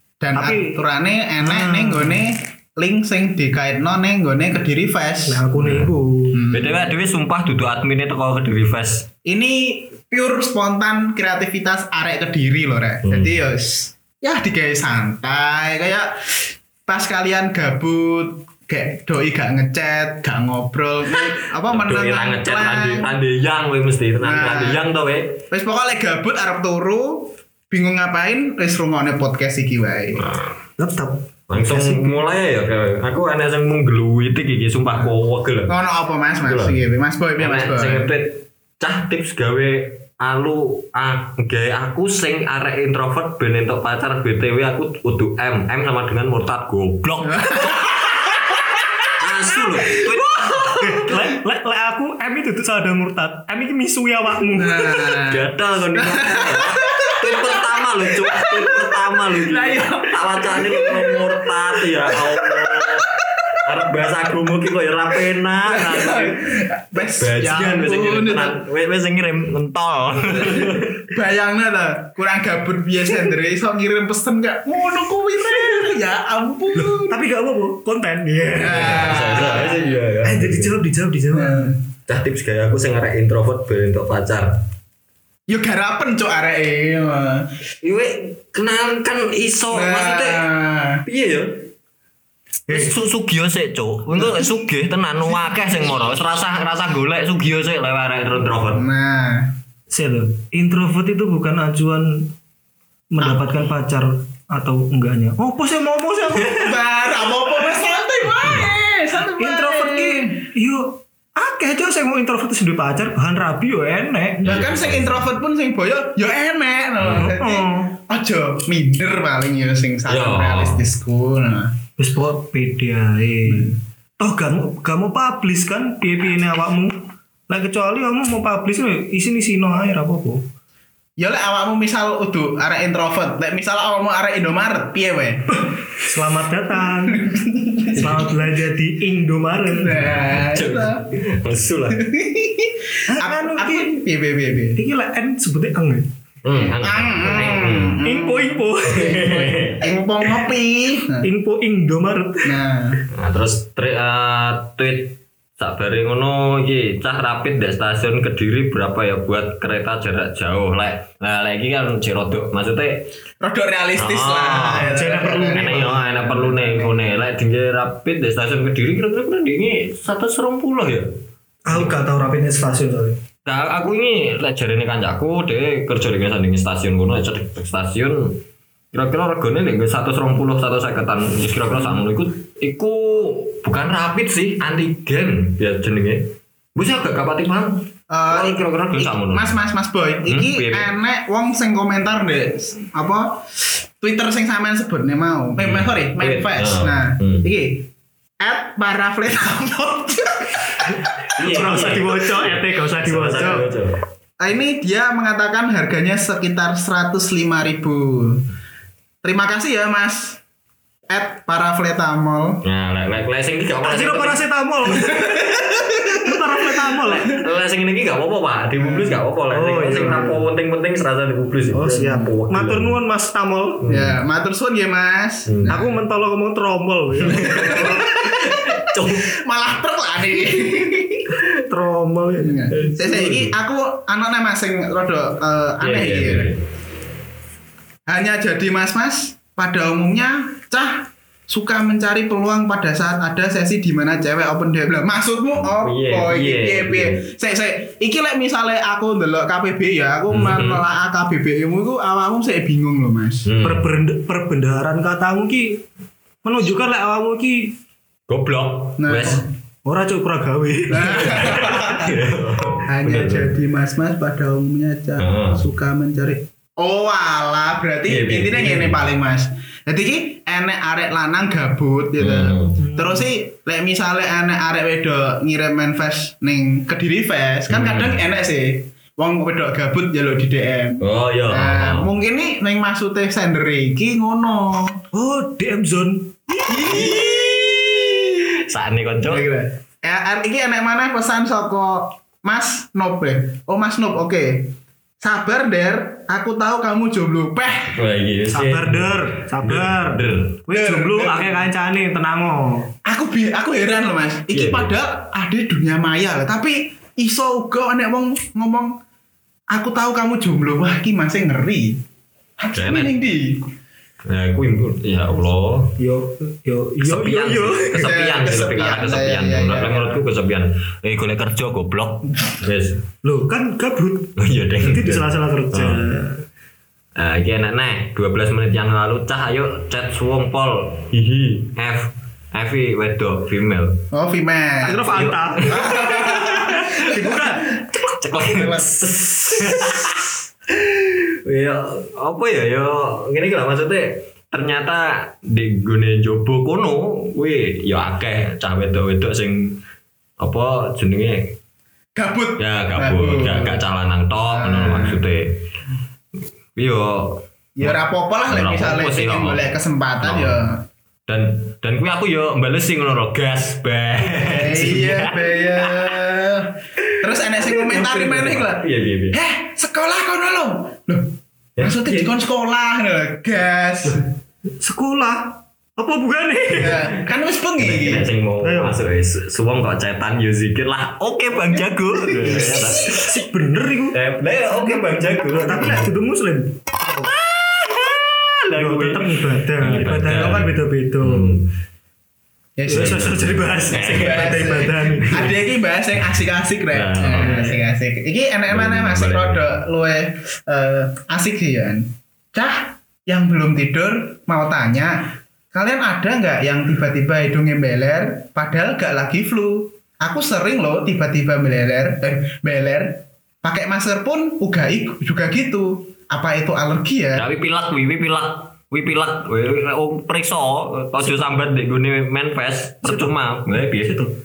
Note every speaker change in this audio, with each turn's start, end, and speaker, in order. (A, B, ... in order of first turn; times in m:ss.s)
0:00.2-0:05.4 A
0:00.3-0:00.8 B
0:01.4-0:02.2 B
0:05.2-0:06.4 B
0:05.6-0:05.9 C
0:06.3-0:06.9 A
0:06.5-0:09.1 C
0:09.2-0:23.1 A
0:13.0-0:13.3 C
0:21.6-0:25.4 C
0:24.2-0:24.8 A
0:25.5-0:30.3 A
0:30.2-0:30.5 C
0:30.8-0:32.2 B
0:31.5-0:35.8 C
0:35.7-0:38.1 A
0:36.4-0:36.8 C
0:37.4-0:47.9 C
0:47.3-0:51.1 A
0:49.1-0:50.8 C
0:50.8-0:55.2 B
0:54.6-1:03.0 A
0:55.2-1:06.5 C
1:05.6-1:08.6 A
1:07.0-1:11.0 C
1:10.4-1:17.2 A
1:16.8-1:19.2 B
1:18.6-1:20.0 A
1:18.7-1:20.7 C
1:20.2-1:21.7 B
1:21.3-1:21.8 A
1:22.1-1:24.6 C
1:25.5-1:27.5 A
1:27.8-1:30.4 C
1:29.7-1:31.0 A
1:31.0-1:31.7 C
1:32.7-1:38.8 C
1:34.2-1:34.4 A
1:38.7-1:39.5 A
1:39.9-1:42.3 B
1:43.1-1:46.8 B
1:46.3-1:50.4 A
1:48.4-1:48.7 C
1:49.4-1:54.6 B
1:54.4-1:55.3 C
1:54.4-2:01.7 A
1:57.0-1:58.0 B
2:00.1-2:00.8 C
2:02.0-2:10.4 B
2:03.4-2:03.7 A
2:11.2-2:15.4 A
2:16.0-2:17.3 B
2:17.1-2:18.3 A
2:17.9-2:20.2 B
2:19.7-2:21.0 A
2:20.4-2:22.0 C
2:21.9-2:24.8 A
2:23.1-2:24.0 B
2:24.7-2:26.1 B
2:26.4-2:28.0 C
2:26.6-2:28.6 A
2:28.0-2:29.6 B
2:28.8-2:30.5 C
2:29.8-2:31.3 A
2:31.2-2:32.5 B
2:32.4-2:33.0 A
2:33.1-2:43.1 C
2:43.4-2:47.0 A
2:44.0-2:51.1 C
2:44.8-2:46.6 B
2:51.6-2:53.2 B
2:53.4-2:58.4 C
2:58.9-3:09.6 C
3:08.1-3:13.4 A
3:10.2-3:10.9 C
3:14.0-3:17.9 A
3:15.6-3:17.5 C
3:18.4-3:20.7 A
3:21.4-3:24.0 C
3:21.4-3:23.7 B
3:24.4-3:28.4 A
3:29.2-3:30.4 A
3:31.1-3:32.6 A
3:32.6-3:34.4 C
3:33.8-3:37.3 B
3:35.1-3:36.2 A
3:37.0-3:43.0 C
3:38.8-3:39.2 A
3:39.5-3:40.4 B
3:41.7-3:43.8 B
3:43.8-3:44.2 C
3:43.9-3:45.9 A
3:45.5-3:45.8 C
3:45.7-3:48.0 B
3:47.3-3:49.3 C
3:47.3-3:51.3 A
3:51.6-3:53.2 B
3:52.4-3:56.5 A
3:52.7-3:53.5 C
3:55.8-3:56.6 C
3:58.1-4:13.4 A
4:05.6-4:07.2 C
4:10.3-4:10.8 C
4:13.4-4:13.8 C
4:13.6-4:15.8 B
4:16.4-4:17.8 B
4:18.3-4:19.4 C
4:19.0-4:19.5 A
4:19.8-4:21.9 B
4:20.9-4:22.2 A
4:21.4-4:23.5 C
4:22.8-4:45.0 A
4:25.2-4:25.6 C
4:28.1-4:29.0 C
4:32.2-4:32.8 C
4:32.8-4:33.3 B
4:37.7-4:38.2 C
4:41.0-4:42.1 C
4:45.1-4:47.1 B
4:46.6-4:48.6 A
4:48.5-4:49.5 C
4:49.3-4:57.9 A
4:57.9-5:00.6 C
4:58.5-5:02.9 B
5:00.7-5:01.7 A
5:03.0-5:08.9 A
5:04.5-5:05.0 C
5:09.7-5:12.0 A
5:12.6-5:13.7 A
5:12.7-5:13.1 C
5:14.2-5:16.0 C
5:16.0-5:18.0 B
5:17.0-5:23.0 C
5:17.9-5:20.2 A
5:23.2-5:26.4 B
5:24.4-5:26.0 C
5:27.1-5:34.0 C
5:34.1-5:37.4 A
5:34.8-5:37.8 B
5:35.0-5:36.1 C
5:37.3-5:49.8 C
5:38.3-5:38.9 A
5:50.4-5:51.6 C
5:52.2-5:53.8 A
5:52.6-5:55.6 C
5:54.5-5:55.2 A
5:56.8-6:00.6 C
5:57.8-6:00.8 A
6:01.3-6:06.2 C
6:04.2-6:14.2 A
6:07.5-6:09.4 C
6:11.8-6:12.3 C
6:14.8-6:17.1 B
6:16.8-6:18.3 A
6:17.8-6:23.3 C
6:18.6-6:19.0 B
6:22.3-6:27.3 B
6:24.1-6:26.1 C
6:27.2-6:31.7 C
6:28.8-6:31.6 B
6:32.8-6:33.5 A
6:32.8-6:35.4 B
6:32.9-6:35.6 C
6:34.0-6:57.5 A
6:36.9-6:37.7 C
6:37.3-6:37.8 B
6:38.7-6:39.6 C
6:57.3-7:04.3 C
7:03.0-7:03.3 B